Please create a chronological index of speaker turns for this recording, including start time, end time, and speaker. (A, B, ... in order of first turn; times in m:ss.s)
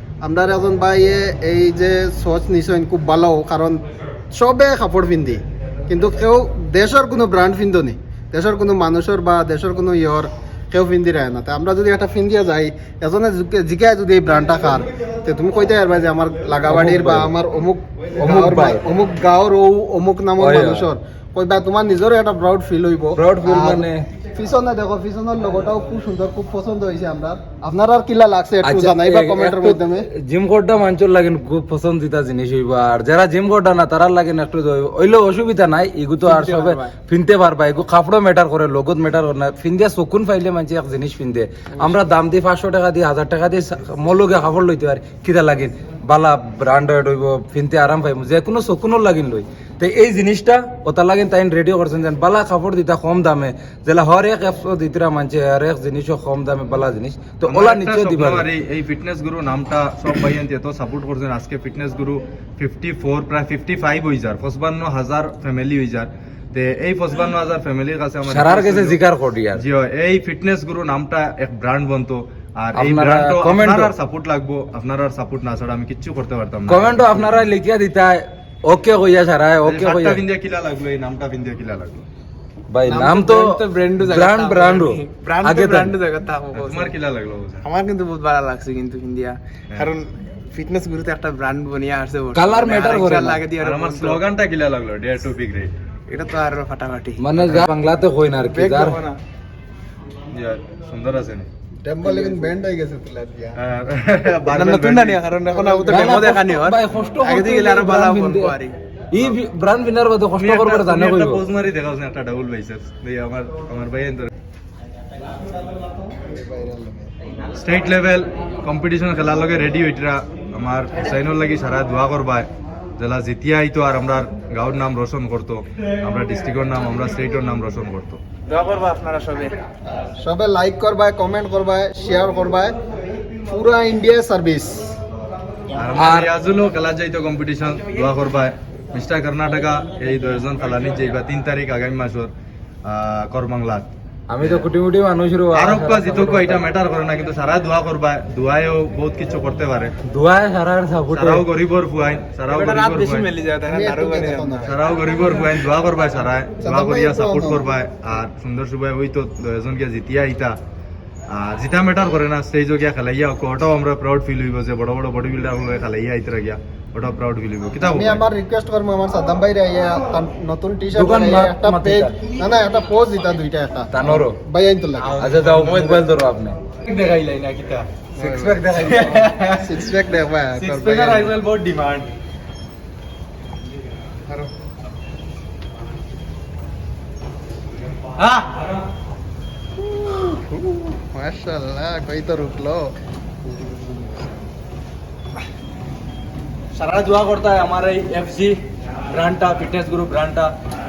0:00.2-0:30.1 A
0:16.7-0:17.3 B
0:18.2-0:18.8 B
0:20.4-0:20.9 B
0:23.2-0:24.0 B
0:28.6-0:58.4 B
0:36.3-0:36.8 C
0:57.5-1:09.0 D
1:08.2-1:09.6 B
1:09.5-1:17.3 D
1:12.7-1:13.9 B
1:16.7-1:20.2 B
1:19.6-1:22.0 D
1:22.7-1:25.9 B
1:22.9-1:26.9 C
1:26.5-1:27.6 D
1:27.6-1:34.2 C
1:32.3-1:33.4 B
1:33.6-1:35.7 D
1:36.1-1:37.2 C
1:37.2-1:39.0 B
1:37.4-1:37.7 D
1:38.5-1:39.2 C
1:40.3-1:41.5 D
1:41.8-1:43.6 A
1:43.6-1:45.2 D
1:44.5-1:48.8 C
1:45.5-1:45.9 A
1:45.8-1:48.5 B
1:49.1-1:51.4 B
1:50.4-1:54.3 D
1:56.1-1:57.1 A
1:57.6-2:08.2 D
2:08.5-2:09.6 C
2:10.2-2:12.7 A
2:13.4-2:14.9 A
2:15.8-2:22.3 D
2:15.9-2:16.3 B
2:22.8-2:23.9 D
2:24.3-2:26.6 B
2:25.5-2:29.9 D
2:30.1-2:31.4 B
2:31.1-2:33.3 D
2:32.5-2:34.7 C
2:33.7-2:34.8 A
2:34.6-2:40.6 D
2:36.6-2:37.6 A
2:41.3-2:48.2 D
2:47.8-2:55.2 A
2:50.9-2:52.2 B
2:53.9-2:54.4 B
2:55.0-2:55.9 D
2:55.2-2:56.6 B
2:56.8-2:57.9 D
2:58.2-2:59.2 B
2:58.2-2:58.7 A
2:58.8-2:59.8 D
2:59.6-3:01.3 A
3:00.6-3:02.1 D
3:08.2-3:08.7 D
3:09.8-3:12.8 A
3:16.7-3:18.6 D
3:19.1-3:20.5 D